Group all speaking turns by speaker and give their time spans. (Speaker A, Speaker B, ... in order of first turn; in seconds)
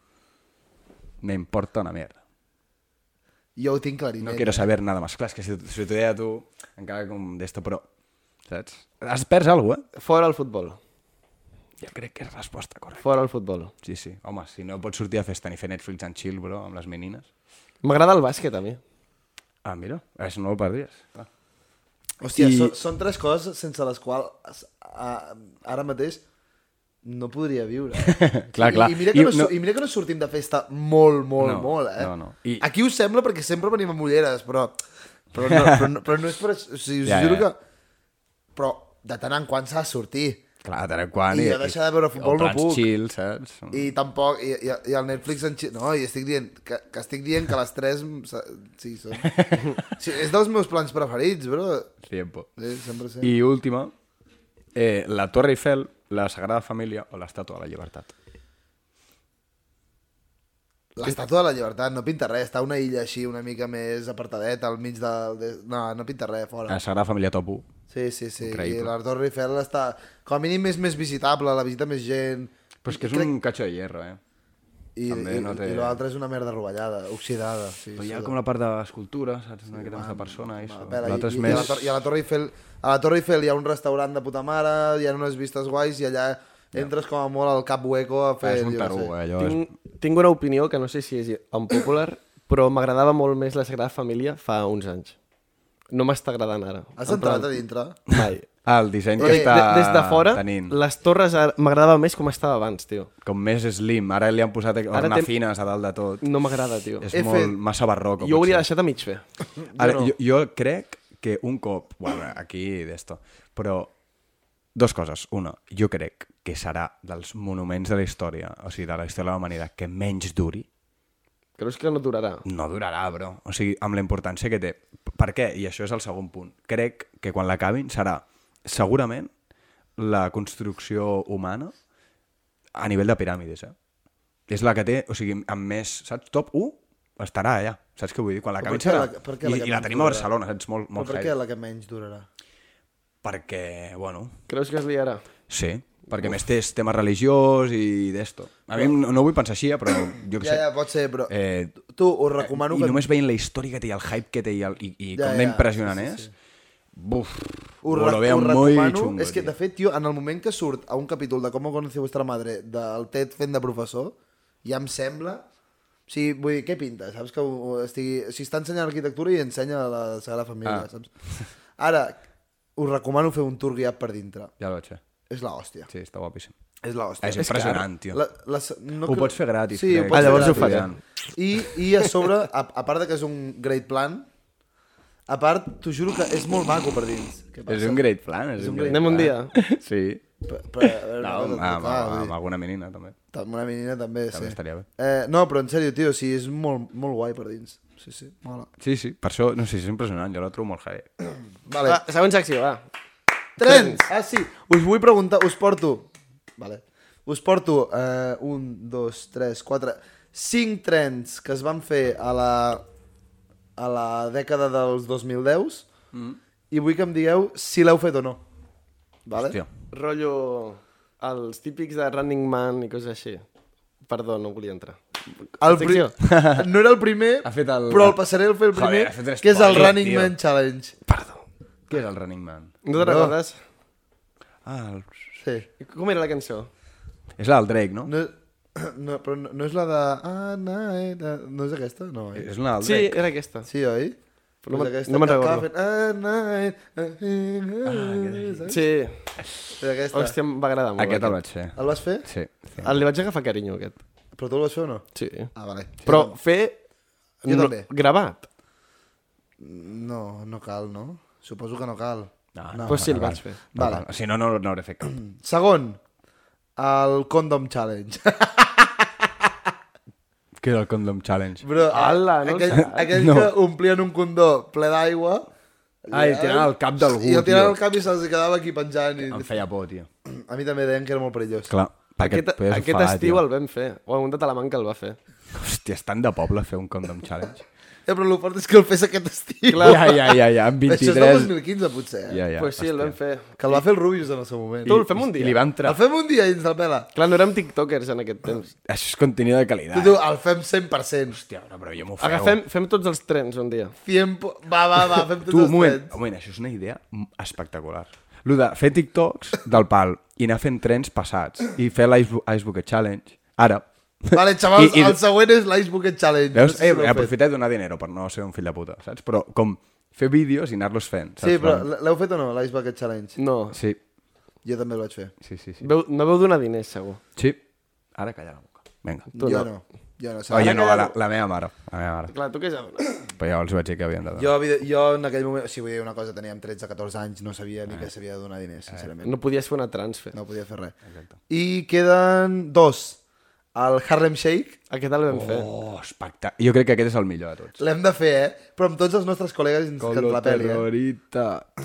Speaker A: 1.2-2.2, 4.2-7.8, 8.5-9.9, 11.8-13.0, 13.8-17.3, 19.6-21.3, 22.4-22.8, 28.0-29.5, 31.4-32.6, 35.5-35.9, 37.0-37.5, 40.6-43.9, 49.2-49.9, 52.1-52.5, 53.2-53.9, 54.7-58.1, 66.7-67.7, 68.4-68.9, 72.8-74.2, 75.1-76.0, 78.0-81.9, 88.4-89.6, 98.1-100.8, 103.2-106.3, 107.0-108.7, 109.8-113.9, 114.7-120.7, 122.5-129.3, 130.0-131.7, 132.7-133.7, 134.5-141.3, 143.2-144.3, 145.5-150.7, 151.3-151.8, 152.4-156.3, 156.9-159.5, 170.6-171.5, 174.6-175.0, 175.9-176.5, 177.2-178.2, 179.1-181.0, 187.7-190.2, 190.8-193.2, 194.3-194.9, 198.8-201.1, 216.1-216.4, 219.4-219.7, 226.2-226.7, 227.4-230.3, 231.9-232.7, 234.6-235.3, 237.4-238.1, 242.3-243.2, 247.8-248.7, 251.0-253.0, 262.6-265.2, 270.6-271.6, 272.7-273.5, 276.1-277.8, 279.2-280.1, 281.7-283.4, 285.5-287.6, 289.8-291.5, 292.3-293.2, 294.8-296.0, 298.8-300.2, 301.3-302.6, 305.4-315.2, 316.5-321.9, 323.7-324.0, 325.4-325.8, 328.1-329.4, 330.5-332.3, 333.4-334.5, 341.1-341.4, 345.3-347.8, 350.0-351.7
Speaker B: 3.5-4.6, 22.2-26.2, 27.0-34.8, 35.3-37.6, 38.5-40.4, 41.3-42.9, 43.7-51.9, 52.6-53.3, 61.0-66.8, 67.9-73.3, 75.0-78.3, 79.7-89.1, 97.0-98.0, 99.2-99.5, 107.1-107.6, 109.6-110.1, 138.6-140.3, 140.9-142.3, 150.4-153.0, 155.1-156.3, 157.8-165.4, 166.1-171.1, 171.8-172.2, 172.8-174.5, 175.3-175.9, 176.8-184.3, 185.3-188.1, 188.6-189.3, 190.4-192.3, 193.3-198.7, 201.7-202.0, 203.6-212.8, 213.8-215.9, 216.7-218.4, 219.3-219.6, 225.6-230.9, 232.9-233.4, 235.4-235.7, 238.1-242.5, 243.7-244.2, 244.7-248.8, 249.8-250.4, 251.8-252.3, 254.3-256.4, 257.5-257.9, 259.6-264.0, 265.2-266.0, 266.8-269.5, 271.6-275.5, 276.1-279.5, 280.3-281.7, 288.1-292.4, 293.6-295.0, 295.8-297.1, 299.9-301.4, 304.1-306.1, 314.3-317.3, 321.4-323.4, 324.6-325.3, 329.3-330.9, 334.4-339.3, 340.3-340.9, 341.5-343.2, 343.7-344.8, 347.8-350.9
Speaker C: 9.9-10.8, 13.0-13.7, 17.8-18.8, 89.4-95.2, 95.9-97.5, 98.1-98.5, 99.2-103.1, 104.9-105.3, 106.2-107.1, 108.2-109.2, 121.6-122.4, 144.5-145.2, 177.4-177.8, 180.1-180.9, 188.9-189.5, 201.9-202.8, 203.6-204.1, 219.9-223.4, 224.1-225.0, 225.6-226.1, 231.1-231.4, 232.8-233.6, 235.8-236.7, 242.8-243.7, 244.6-245.7, 248.7-249.3, 250.1-251.4, 252.8-254.0, 255.1-255.5, 256.1-256.8, 257.4-258.5, 262.9-263.6, 271.9-273.1, 282.2-285.2, 289.7-290.1, 292.6-293.8, 294.9-295.6, 297.1-298.7, 302.2-303.9, 323.4-323.8, 325.8-327.2, 329.4-329.7, 330.5-331.2, 332.3-333.2, 339.2-340.4, 344.9-345.7